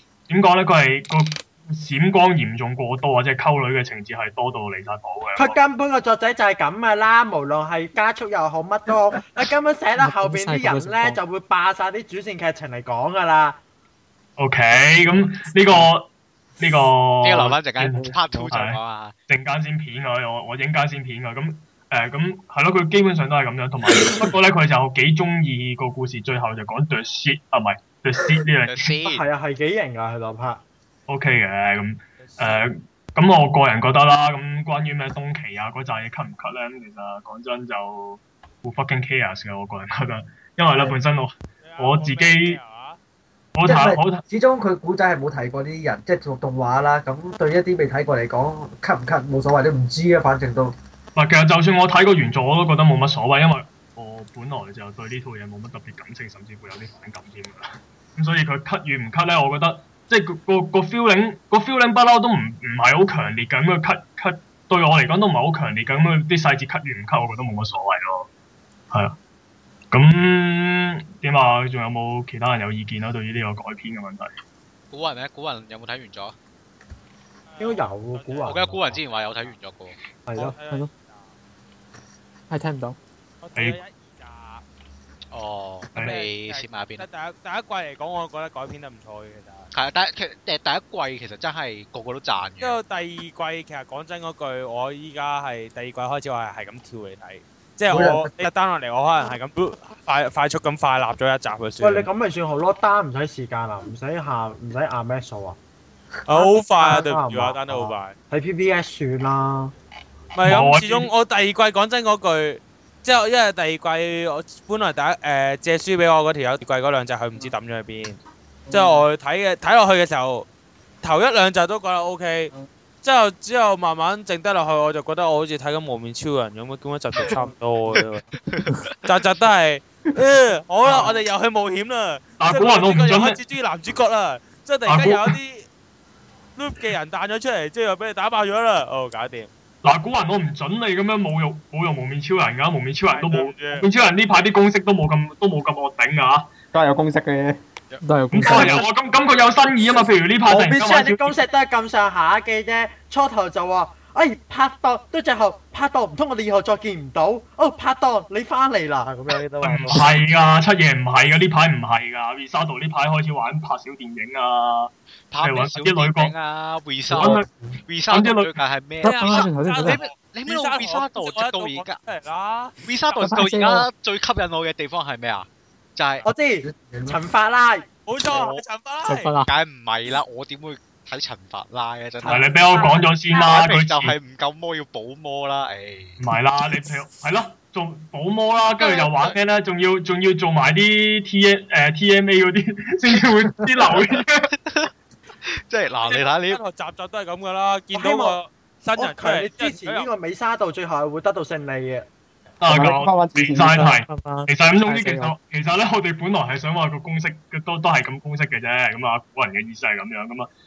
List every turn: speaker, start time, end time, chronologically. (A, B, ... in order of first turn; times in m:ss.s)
0:00.3-0:05.6 A
0:05.4-0:13.6 B
0:10.0-0:11.2 C
0:14.4-0:28.9 A
0:17.2-0:19.1 D
0:28.7-0:29.2 D
0:29.0-0:30.6 B
0:31.1-0:42.6 A
0:32.2-0:32.7 E
0:41.6-0:43.0 E
0:43.5-0:44.2 A
0:43.6-0:50.7 F
0:51.1-1:08.3 A
1:08.9-1:09.2 A
1:09.9-1:14.3 A
1:14.9-1:16.3 D
1:17.5-1:19.6 E
1:17.6-1:19.0 B
1:18.4-1:20.0 D
1:20.3-1:20.5 B
1:20.3-1:21.3 E
1:20.4-1:20.9 C
1:22.5-1:23.0 C
1:23.4-1:24.6 E
1:23.5-1:23.8 A
1:25.3-1:27.1 D
1:26.0-1:29.7 E
1:29.7-1:32.8 D
1:32.6-1:42.1 E
1:37.9-1:38.4 F
1:41.8-1:45.6 B
1:46.3-1:48.1 E
1:46.3-1:49.7 B
1:50.3-2:00.5 E
1:50.4-1:51.1 A
2:01.0-2:02.5 E
2:03.0-2:08.3 E
2:08.0-2:09.1 D
2:09.0-2:15.7 E
2:10.8-2:11.1 A
2:12.4-2:13.4 A
2:14.8-2:15.4 A
2:16.6-2:19.5 E
2:19.8-2:26.5 A
2:23.1-2:23.9 E
2:26.7-2:27.6 G
2:28.0-2:28.9 C
2:28.3-2:31.4 A
2:30.4-2:40.0 B
2:39.6-2:46.3 A
2:45.3-2:52.0 D
2:47.1-2:47.5 A
2:48.1-2:48.5 A
2:49.0-2:53.2 E
2:49.0-2:50.0 C
2:52.8-2:56.3 D
2:53.2-2:53.9 C
2:56.2-2:57.9 B
2:56.6-2:57.2 F
2:58.1-2:59.3 E
2:58.3-2:58.6 D
2:59.0-2:59.5 C
2:59.4-3:02.5 D
3:02.3-3:04.2 A
3:03.3-3:06.2 D
3:06.2-3:14.5 A
3:08.8-3:09.1 D
3:14.6-3:14.9 D
3:15.4-3:16.6 D
3:16.0-3:20.1 E
3:17.9-3:18.4 B
3:19.0-3:22.1 B
3:22.6-3:30.5 A
3:22.6-3:24.0 G
3:23.7-3:25.3 C